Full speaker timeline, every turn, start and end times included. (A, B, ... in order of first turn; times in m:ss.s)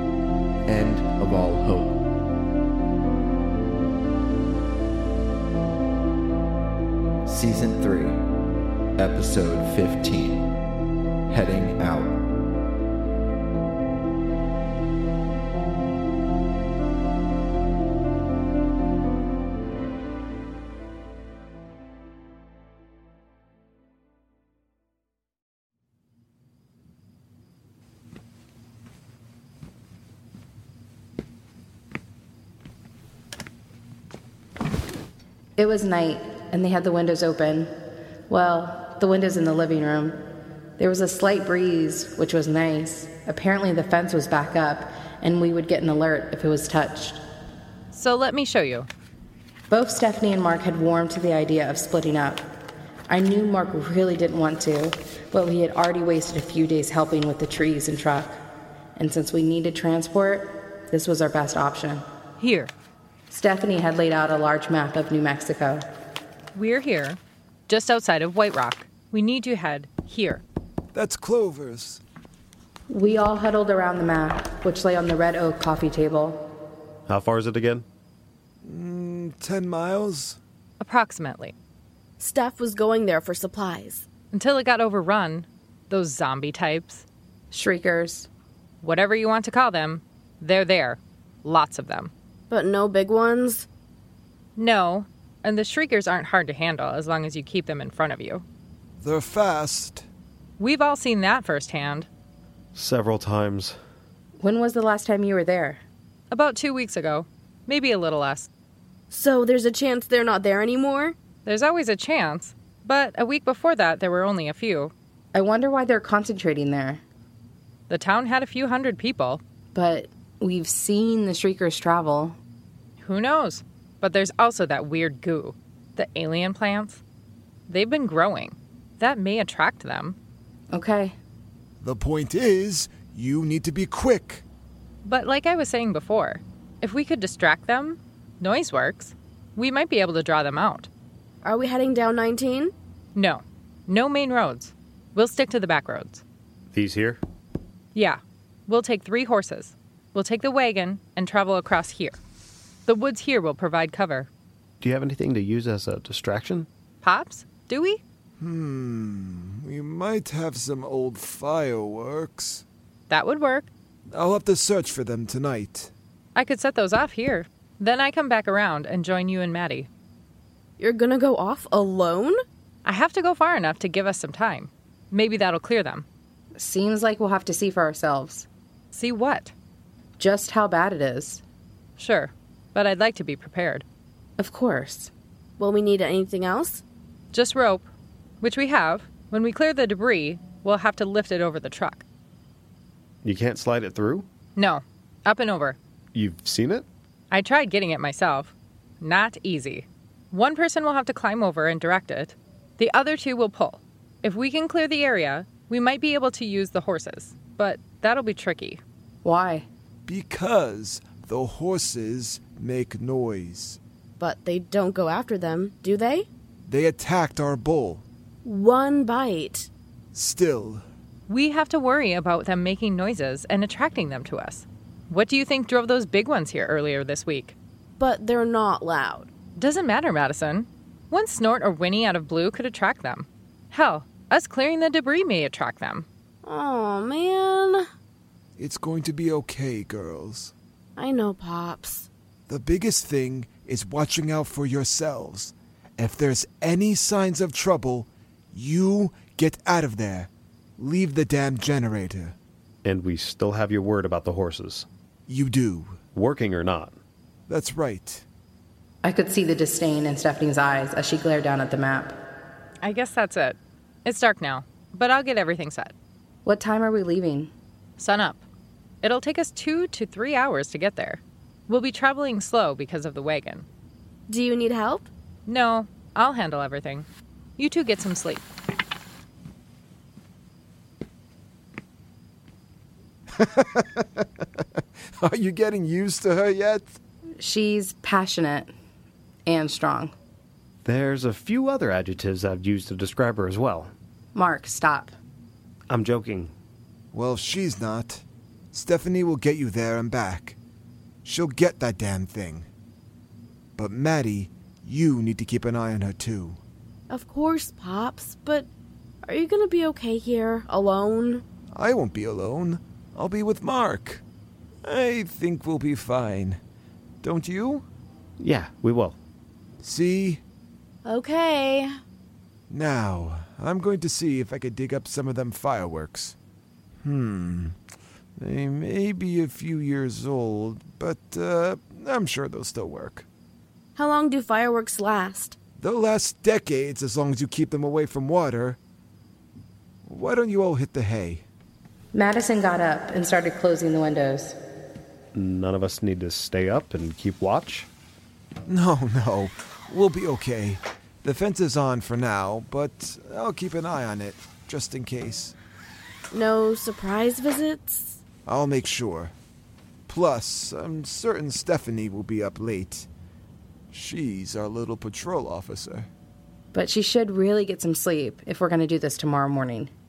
0:00.7-0:02.0 A
0:07.2-0:08.2 A
0:09.0-0:10.5 A
0:11.3-0:12.2 A
0:35.6-0:37.7 B
0:38.3-0:40.2 B
0:40.8-0:47.2 B
0:47.9-0:48.9 C
0:49.7-0:52.4 B
0:53.1-0:58.4 B
0:59.0-1:02.0 B
1:02.4-1:02.7 C
1:03.3-1:05.8 B
1:06.5-1:10.4 C
1:10.9-1:12.0 D
1:12.9-1:16.4 B
1:17.1-1:17.8 E
1:18.6-1:20.4 D
1:20.8-1:21.5 C
1:22.2-1:24.0 F
1:24.3-1:27.0 C
1:27.5-1:28.3 B
1:28.8-1:32.1 C
1:32.5-1:33.7 F
1:34.6-1:38.4 C
1:39.0-1:40.0 D
1:40.6-1:42.1 C
1:42.7-1:43.8 E
1:44.4-1:45.8 B
1:46.3-1:48.5 C
1:49.1-1:51.2 F
1:51.4-1:54.9 C
1:55.3-1:57.0 B
1:57.9-1:59.4 C
1:59.7-2:02.4 B
2:03.0-2:07.0 C
2:07.7-2:10.2 C
2:10.7-2:11.2 B
2:11.8-2:14.4 D
2:15.0-2:20.9 C
2:21.4-2:22.7 F
2:23.1-2:26.2 C
2:26.7-2:27.2 E
2:27.9-2:32.2 C
2:32.9-2:34.3 C
2:34.8-2:36.7 E
2:37.0-2:38.0 C
2:38.4-2:42.6 D
2:43.1-2:43.7 C
2:44.1-2:45.9 D
2:46.3-2:49.9 C
2:50.8-2:52.4 F
2:52.8-2:56.0 C
2:56.6-2:58.5 B
2:58.9-2:59.5 C
3:00.2-3:01.4 B
3:02.0-3:03.8 C
3:04.4-3:05.1 B
3:05.6-3:06.8 F
3:07.3-3:07.8 C
3:08.4-3:12.0 C
3:13.2-3:14.3 E
3:14.6-3:15.8 C
3:16.1-3:16.9 E
3:17.3-3:28.8 C
3:29.2-3:29.7 B
3:30.1-3:33.8 D
3:34.2-3:36.3 F
3:36.6-3:38.0 D
3:38.4-3:39.7 F
3:40.1-3:40.8 D
3:41.3-3:47.5 C
3:48.0-3:49.3 F
3:49.6-3:56.0 C
3:56.4-3:57.8 F
3:58.6-4:00.5 D
4:01.0-4:02.1 F
4:02.5-4:12.4 D
4:12.8-4:14.9 E
4:15.3-4:16.0 D
4:16.1-4:17.0 E
4:17.5-4:18.2 D
4:19.0-4:22.1 B
4:22.8-4:25.9 C
4:26.4-4:27.5 B
4:28.0-4:28.4 C
4:29.0-4:33.6 C
4:34.3-4:35.1 F
4:35.4-4:37.1 C
4:37.6-4:38.4 C
4:43.4-4:44.4 D
4:45.2-4:47.0 D
4:47.4-4:48.7 B
4:49.4-4:50.1 B
4:50.8-4:53.9 E
4:54.3-4:55.2 B
4:55.9-4:56.5 E
4:57.1-5:00.6 D
5:01.2-5:02.6 D
5:03.8-5:06.6 D
5:07.1-5:08.7 F
5:09.2-5:11.4 F
5:11.7-5:14.2 D
5:14.8-5:16.6 D
5:17.2-5:17.8 D
5:18.4-5:19.2 E
5:19.8-5:20.4 D
5:21.0-5:22.0 F
5:22.7-5:26.4 D
5:27.0-5:27.8 D
5:28.4-5:33.2 D
5:34.0-5:35.6 F
5:35.8-5:38.8 D
5:40.0-5:41.4 D
5:42.1-5:44.5 B
5:45.3-5:47.9 E
5:48.6-5:55.5 D
5:56.3-5:58.2 F
5:58.5-5:59.3 D
6:00.1-6:03.1 D
6:03.9-6:06.1 D
6:06.7-6:09.9 B